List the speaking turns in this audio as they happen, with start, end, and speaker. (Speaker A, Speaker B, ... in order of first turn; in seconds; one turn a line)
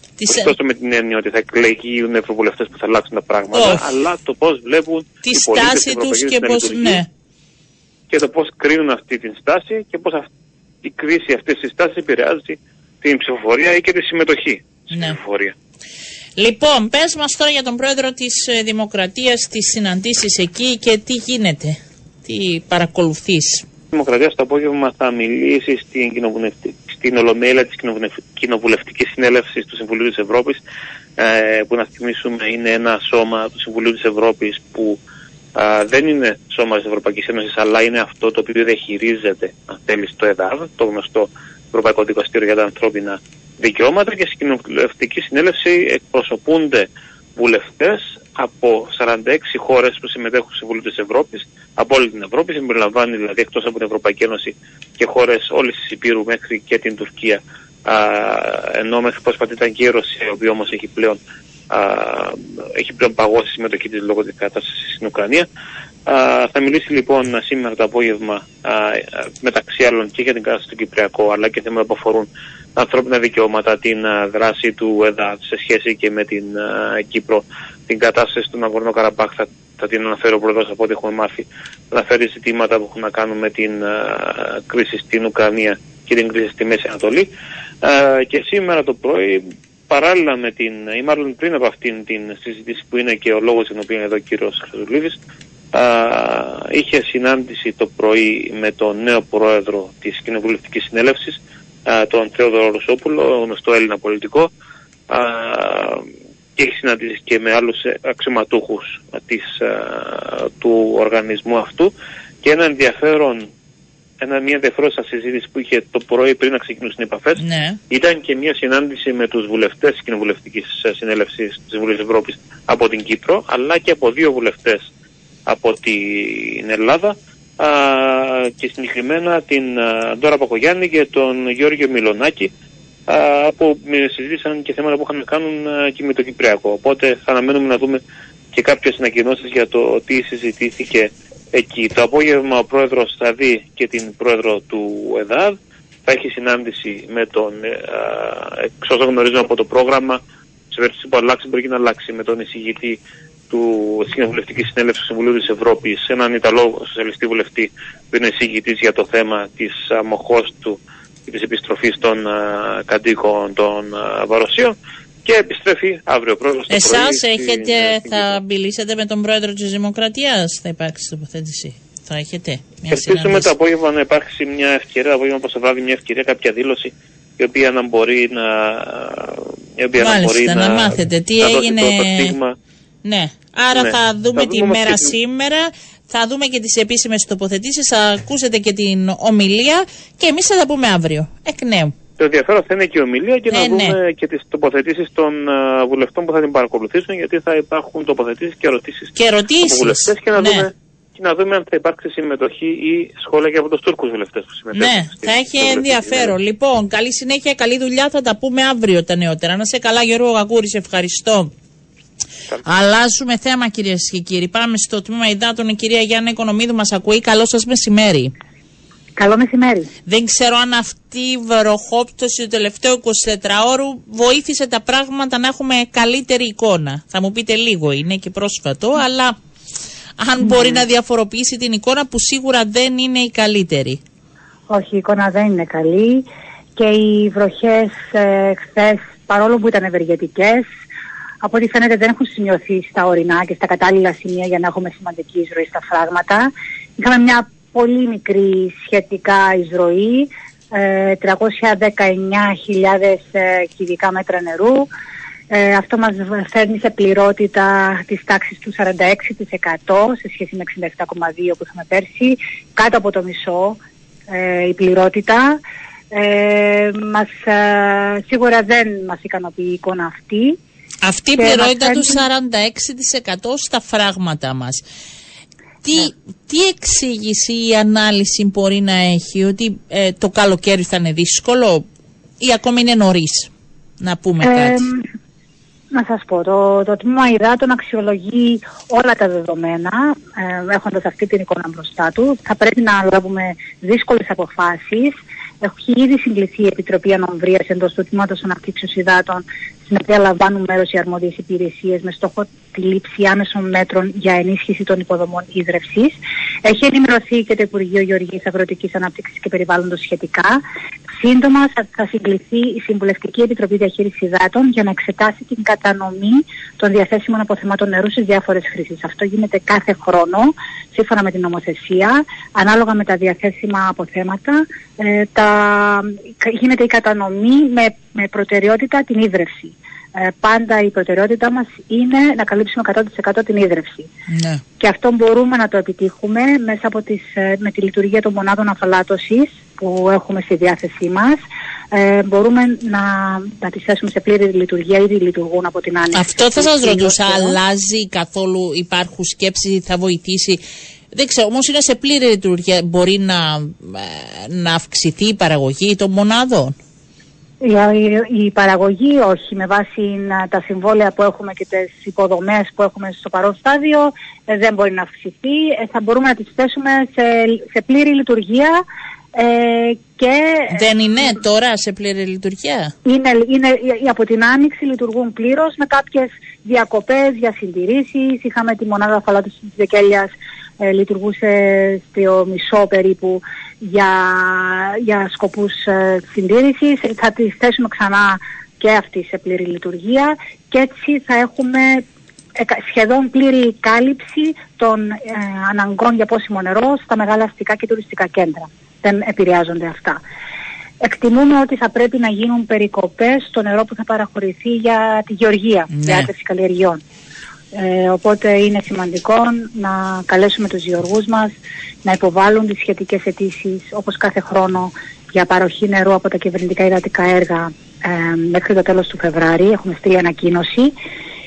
Speaker A: 0.2-0.5
Speaker B: 0.3-7.0
Speaker A: 3.5-3.8
Speaker A: 5.2-7.1
Speaker B: 8.1-10.3
Speaker B: 10.8-15.5
Speaker A: 14.9-15.2
Speaker A: 16.4-23.7
Speaker B: 23.9-30.6
Speaker B: 31.2-35.0
Speaker B: 35.5-65.5
Speaker B: 66.1-87.3
Speaker B: 87.8-95.2
Speaker B: 95.7-104.5
Speaker B: 105.1-111.9
Speaker B: 112.4-113.5
Speaker B: 114.2-124.9
Speaker A: 117.4-117.8
Speaker B: 125.5-132.5
Speaker B: 133.1-138.0
Speaker B: 138.5-153.0
Speaker B: 153.5-168.4
Speaker A: 166.7-173.5
Speaker B: 172.9-182.6
Speaker A: 180.0-182.3
Speaker A: 183.0-191.9
Speaker B: 183.7-185.1
Speaker B: 192.2-206.3
Speaker A: 193.5-194.0
Speaker A: 199.2-200.7
Speaker A: 204.7-211.5
Speaker A: 212.6-218.3
Speaker C: 219.2-219.9
Speaker A: 220.1-229.3
Speaker A: 230.2-234.0
Speaker C: 230.5-230.8
Speaker C: 234.7-236.2
Speaker C: 236.8-240.7
Speaker C: 241.4-254.9
Speaker C: 255.5-265.6
Speaker C: 266.1-270.6
Speaker A: 271.0-274.8
Speaker C: 271.4-272.2
Speaker A: 275.8-281.9
Speaker A: 282.4-284.8
Speaker C: 284.4-285.1
Speaker C: 285.9-310.6
Speaker C: 311.2-334.1
Speaker A: 334.3-334.6
Speaker C: 334.8-347.6
Speaker A: 346.1-350.6
Speaker A: 351.1-356.8
Speaker C: 357.6-368.8
Speaker C: 369.3-370.9
Speaker A: 370.7-372.9
Speaker C: 373.1-392.0
Speaker C: 392.6-400.2
Speaker C: 401.0-407.0
Speaker A: 405.9-406.3
Speaker C: 407.7-420.9